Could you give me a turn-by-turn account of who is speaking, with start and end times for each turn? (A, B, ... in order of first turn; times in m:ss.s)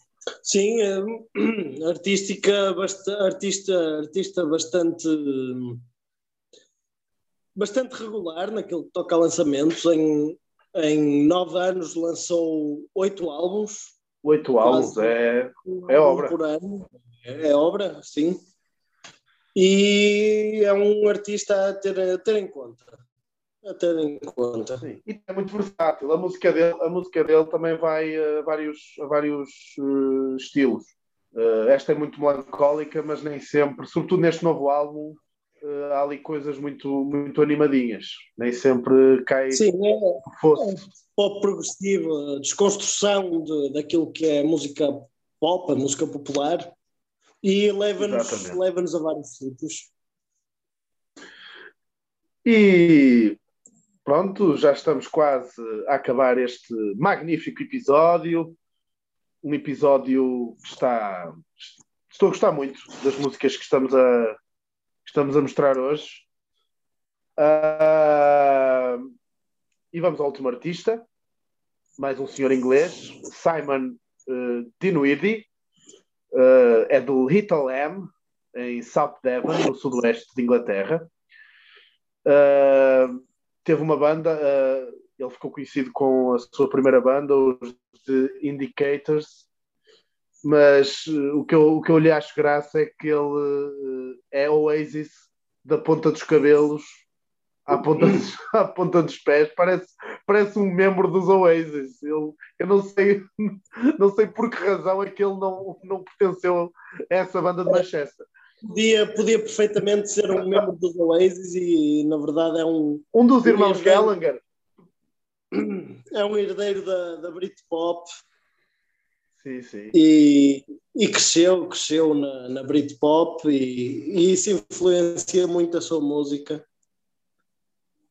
0:00.4-0:05.8 A
0:07.6-0:14.0 A
0:14.2-0:16.3 B
0:14.6-0:18.4 A
0:19.5-0:23.0 A
0:23.6-0:24.8 A
0:24.8-0:39.6 B
0:39.5-0:46.7 A
0:40.2-0:40.8 B
0:47.4-0:49.9 A
0:48.0-0:48.6 B
0:52.4-0:53.4 B
0:54.0-0:58.6 B
0:59.4-1:04.4 B
1:05.0-1:06.3 B
1:07.4-1:09.1 B
1:09.9-1:11.0 B
1:12.0-1:15.5 B
1:16.3-1:21.1 B
1:22.2-1:29.5 B
1:30.4-1:37.0 B
1:37.6-1:48.2 B
1:48.6-1:54.1 A
1:53.1-1:54.4 B
1:55.5-1:58.1 A
1:59.4-2:00.0 B
1:59.9-2:06.6 A